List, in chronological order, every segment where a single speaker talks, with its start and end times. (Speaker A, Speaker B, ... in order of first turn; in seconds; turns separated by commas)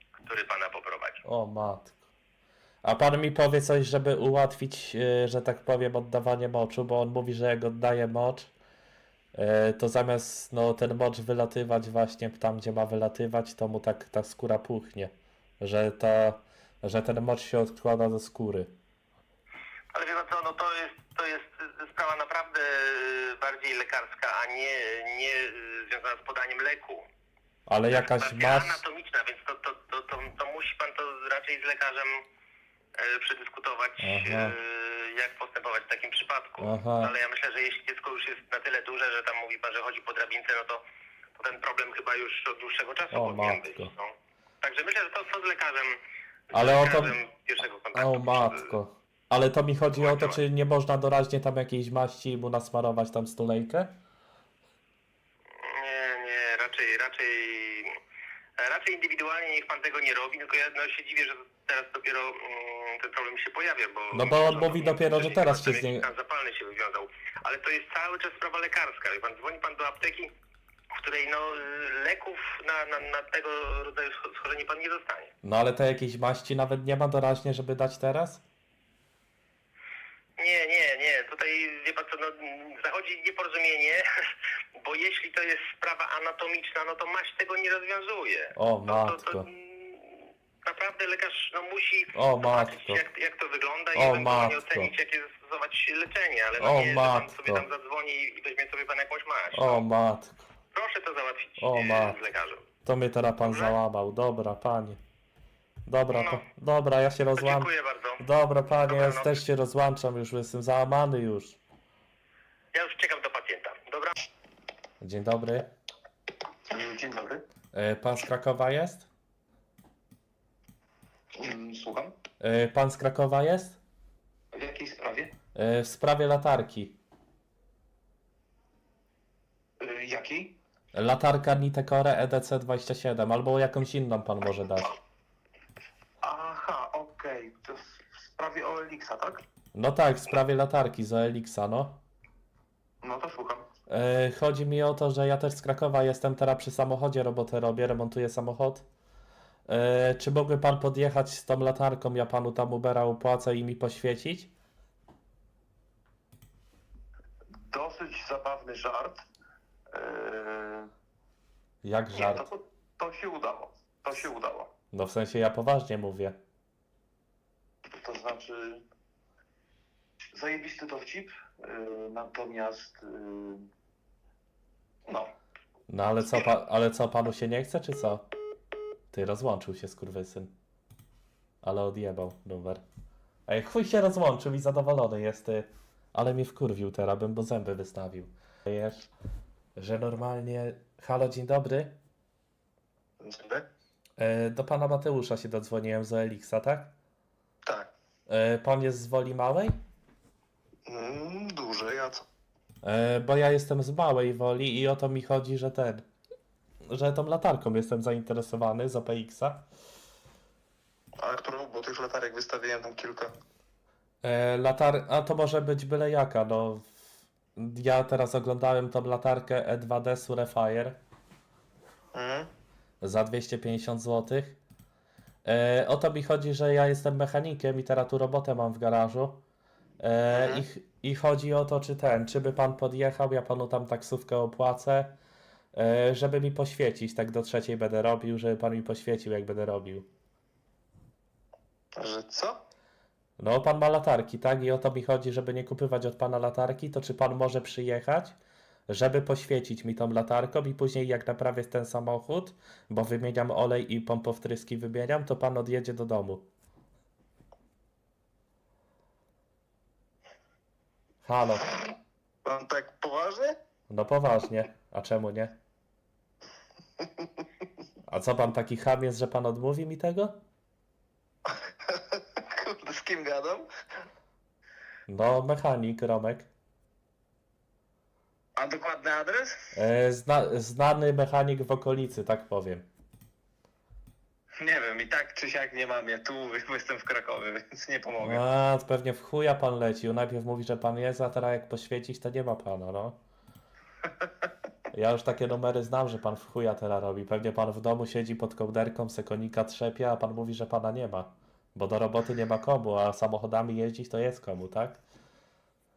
Speaker A: 0.2-1.2, Speaker B: 1.2-2.0, Speaker B: 2.8-8.5, Speaker B: 9.3-18.7, Speaker A: 19.9-27.1, Speaker B: 27.7-28.8, Speaker A: 27.9-32.2, Speaker A: 33.0-40.8, Speaker B: 34.0-34.6, Speaker B: 36.6-37.1, Speaker A: 41.4-46.0, Speaker B: 43.1-43.9, Speaker A: 46.5-48.7, Speaker B: 46.5-47.2, Speaker B: 48.0-54.0, Speaker A: 49.9-50.4, Speaker A: 55.5-58.0, Speaker A: 58.6-70.3, Speaker B: 64.1-66.1, Speaker A: 70.9-75.3, Speaker B: 75.4-78.4, Speaker A: 80.4-84.0, Speaker A: 84.8-99.8, Speaker B: 88.6-89.5, Speaker B: 92.2-93.0, Speaker B: 94.0-94.9, Speaker B: 96.6-97.7, Speaker B: 99.5-100.5, Speaker A: 100.7-102.6, Speaker B: 101.6-102.2, Speaker B: 102.8-105.0, Speaker A: 103.4-103.8, Speaker B: 105.9-111.6, Speaker A: 106.1-106.4, Speaker A: 107.3-109.4, Speaker A: 112.7-114.2, Speaker B: 115.0-115.7, Speaker C: 116.7-117.4, Speaker B: 117.7-119.1, Speaker C: 121.4-122.2, Speaker B: 122.4-123.8, Speaker C: 124.5-125.3, Speaker B: 125.5-127.0, Speaker C: 129.8-130.6, Speaker B: 130.9-135.0, Speaker C: 136.2-139.4, Speaker B: 139.8-142.0, Speaker C: 143.0-143.7, Speaker B: 143.9-148.8, Speaker B: 149.7-154.5, Speaker C: 157.5-159.2, Speaker C: 159.9-160.9, Speaker B: 161.8-162.5, Speaker C: 162.1-164.7, Speaker B: 164.9-166.4, Speaker C: 167.9-168.8, Speaker C: 170.3-173.7, Speaker C: 175.1-175.4, Speaker B: 175.9-178.3, Speaker B: 179.1-180.5, Speaker B: 181.6-182.8, Speaker B: 183.5-189.1, Speaker B: 189.8-191.9, Speaker C: 193.2-193.7, Speaker B: 194.2-196.9, Speaker C: 197.7-197.9, Speaker B: 198.3-199.8, Speaker C: 200.9-202.2, Speaker B: 202.8-206.0, Speaker B: 206.9-209.6, Speaker C: 211.2-213.3, Speaker B: 214.2-216.9, Speaker B: 217.6-221.0, Speaker C: 222.1-222.5, Speaker B: 223.0-224.6, Speaker B: 225.4-229.4, Speaker B: 230.0-235.1, Speaker C: 230.3-230.6, Speaker B: 235.7-240.1, Speaker C: 241.9-242.6, Speaker B: 243.4-248.3, Speaker B: 248.9-256.5, Speaker B: 261.2-261.7, Speaker C: 262.4-263.6, Speaker B: 263.9-265.6, Speaker B: 268.1-270.4, Speaker C: 271.9-273.7, Speaker B: 275.1-276.5, Speaker C: 278.6-279.7, Speaker B: 279.7-282.9, Speaker C: 284.6-288.4, Speaker B: 288.2-293.2, Speaker B: 294.9-305.0